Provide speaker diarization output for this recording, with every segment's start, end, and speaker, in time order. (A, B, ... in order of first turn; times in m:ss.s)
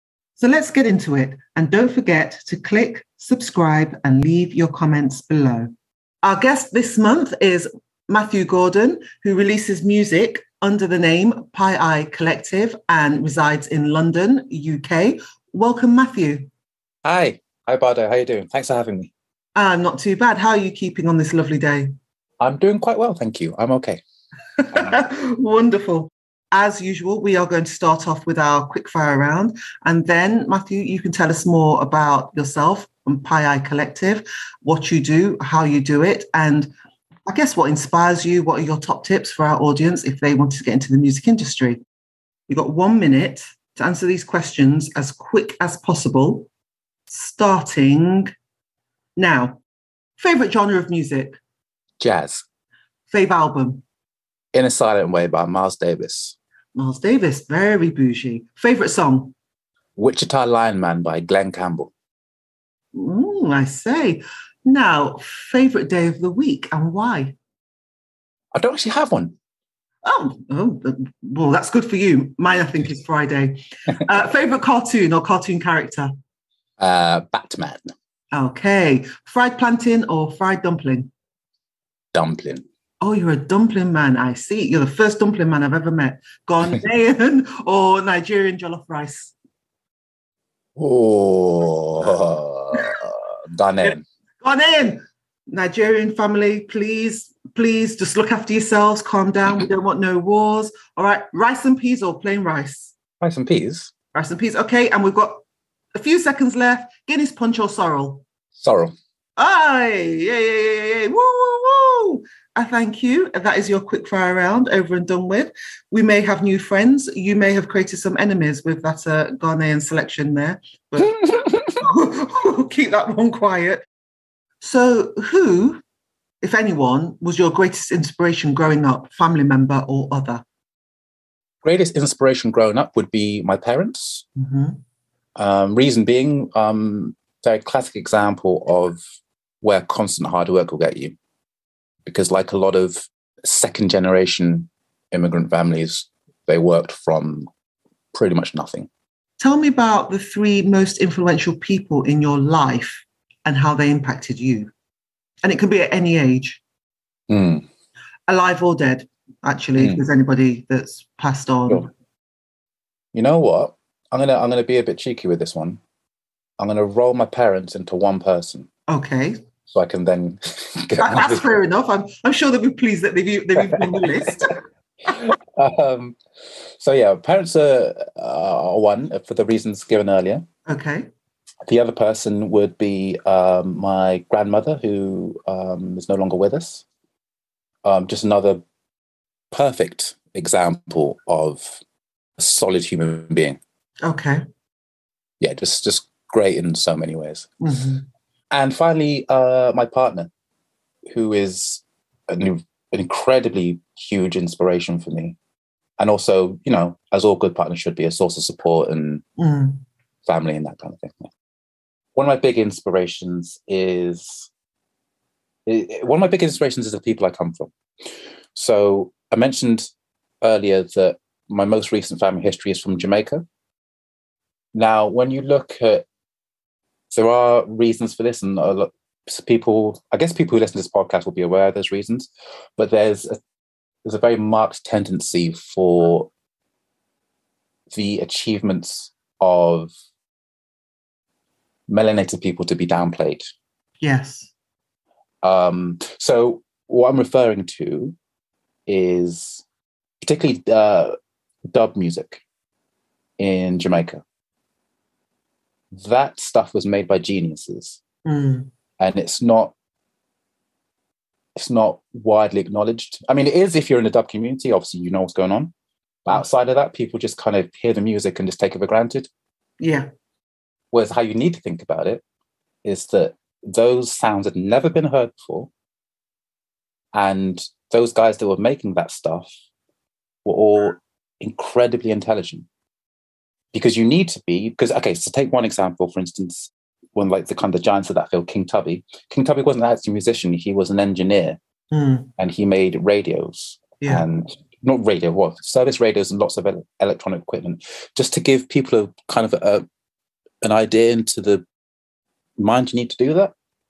0:00.4-0:05.7 A
0:06.2-0:16.5 A
0:17.0-0:19.1 B
0:19.6-0:21.9 A
0:22.4-0:24.0 B
0:24.6-0:36.7 A
0:37.3-0:41.8 A
0:42.5-0:46.5 A
0:47.1-0:48.3 A
0:49.2-0:49.6 A
0:50.2-0:51.4 A
0:52.0-0:52.4 B
0:53.1-0:53.8 A
0:54.5-0:56.4 B
0:56.8-0:59.3 A
1:00.0-1:01.9 B
1:02.9-1:07.4 A
1:08.5-1:09.4 B
1:10.0-1:16.1 A
1:16.8-1:17.9 B
1:18.3-1:21.1 A
1:22.1-1:22.6 B
1:23.0-1:29.3 A
1:30.8-1:34.0 B
1:34.4-1:42.9 A
1:43.2-1:43.9 B
1:44.1-1:45.4 A
1:46.0-1:48.2 A
1:48.6-1:48.9 B
1:49.4-2:03.8 A
2:01.2-2:01.7 B
2:04.6-2:05.8 A
2:06.4-2:10.4 A
2:11.6-2:14.2 B
2:14.4-2:14.8 A
2:15.4-2:19.0 B
2:19.6-2:21.2 B
2:22.1-2:27.5 B
2:28.1-2:28.9 B
2:29.4-2:34.7 A
2:35.4-2:36.6 A
2:37.3-2:37.7 B
2:38.3-2:41.9 A
2:39.8-2:40.0 B
2:43.1-2:45.8 B
2:46.6-2:48.7 B
2:48.9-2:49.4 A
2:49.7-2:51.4 B
2:51.0-2:54.6 A
2:53.7-2:54.3 B
2:55.1-2:56.2 B
2:56.8-3:00.4 B
3:00.7-3:01.1 A
3:01.7-3:06.8 B
3:07.8-3:08.6 B
3:09.5-3:11.8 B
3:12.4-3:13.6 B
3:14.0-3:14.4 A
3:15.4-3:17.5 B
3:17.6-3:18.0 A
3:18.5-3:20.3 B
3:21.1-3:25.4 B
3:26.0-3:29.2 B
3:29.4-3:29.8 A
3:30.2-3:31.3 B
3:32.2-3:34.5 B
3:35.7-3:37.7 B
3:38.6-3:39.9 B
3:40.4-3:43.4 B
3:44.7-3:46.0 B
3:47.1-3:53.4 B
3:54.0-3:56.3 B
3:57.9-3:59.9 B
4:01.9-4:03.5 B
4:04.0-4:04.5 A
4:05.4-4:08.2 B
4:08.9-4:09.6 B
4:10.2-4:11.2 B
4:11.7-4:12.4 B
4:13.4-4:14.2 B
4:15.9-4:18.0 B
4:18.2-4:18.7 A
4:19.0-4:19.7 B
4:21.6-4:25.7 B
4:26.2-4:29.3 B
4:29.8-4:30.1 A
4:30.9-4:32.2 B
4:32.8-4:35.7 B
4:37.1-4:39.5 B
4:40.4-4:42.7 B
4:43.7-4:51.6 B
4:51.9-4:52.3 A
4:52.4-4:59.8 B
5:00.6-5:01.6 B
5:02.6-5:03.5 B